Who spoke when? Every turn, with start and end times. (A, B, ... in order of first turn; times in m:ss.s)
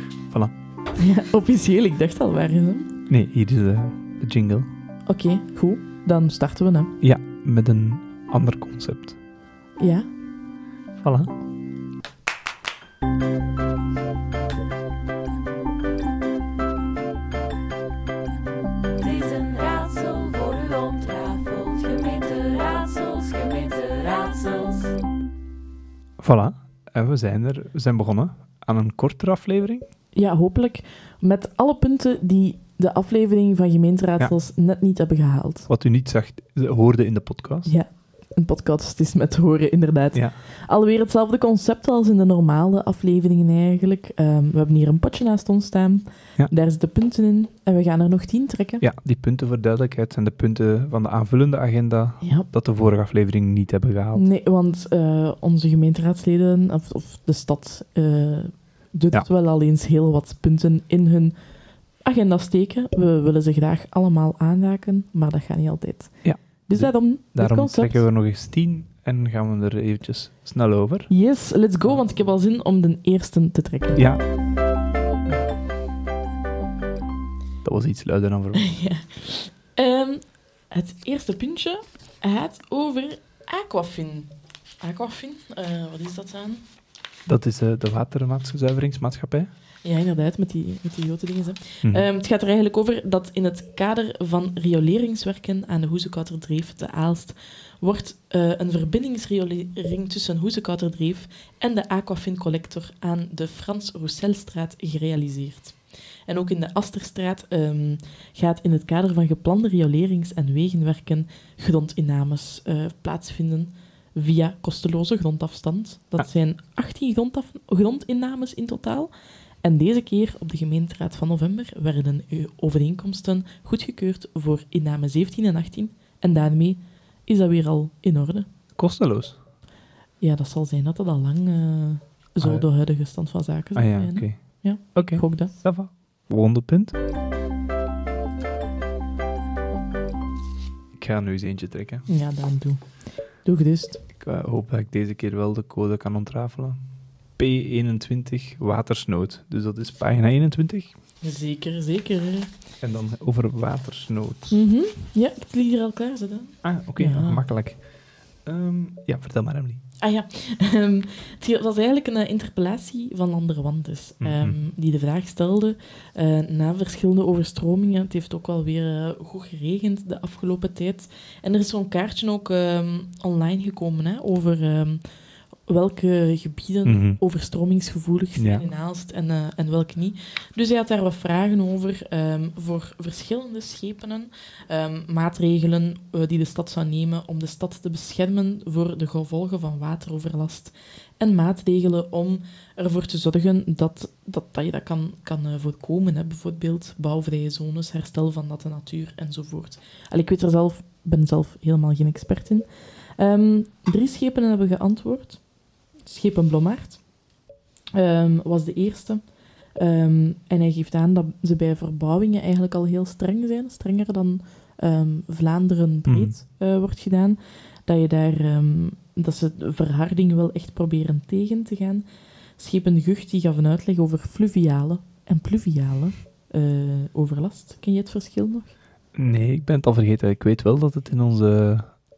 0:01.0-0:03.0 A
0:03.1-0:04.7 B
0:05.1-0:06.9 A
0:07.0-0:09.2 B
0:09.8-0:10.1 A
0:11.0-0:11.3 B
0:19.0-0:24.9 C
0:26.2-0:29.8 B
0:30.1-0:35.7 A
0:35.7-0:37.7 B
0:37.6-0:48.8 A
0:48.8-0:54.2 B
0:52.2-0:52.5 A
0:54.1-1:01.3 A
1:02.0-1:08.0 A
1:06.2-1:11.1 B
1:11.1-1:14.0 A
1:14.0-1:14.2 B
1:17.6-1:18.6 B
1:18.5-1:26.6 A
1:27.3-1:29.5 B
1:29.8-1:45.8 A
1:46.3-1:59.1 A
1:59.6-2:08.5 A
2:08.8-2:09.4 B
2:10.2-2:15.5 A
2:12.4-2:12.6 B
2:13.8-2:14.4 B
2:15.0-2:17.0 B
2:20.9-2:22.0 B
2:22.1-2:22.8 A
2:23.4-2:24.0 A
2:24.1-2:26.8 B
2:27.4-2:30.9 B
2:31.2-2:32.5 A
2:32.8-2:34.6 B
2:34.5-2:37.4 A
2:36.6-2:37.8 B
2:38.4-2:39.8 B
2:40.0-2:55.0 A
2:44.2-2:44.6 B
2:55.7-3:22.7 A
2:56.8-2:57.2 B
2:58.4-2:58.6 B
3:23.2-3:25.4 A
3:26.1-3:27.0 A
3:28.0-3:29.2 A
3:29.8-3:42.0 A
3:36.1-3:36.4 B
3:42.6-3:48.7 A
3:49.2-3:51.9 B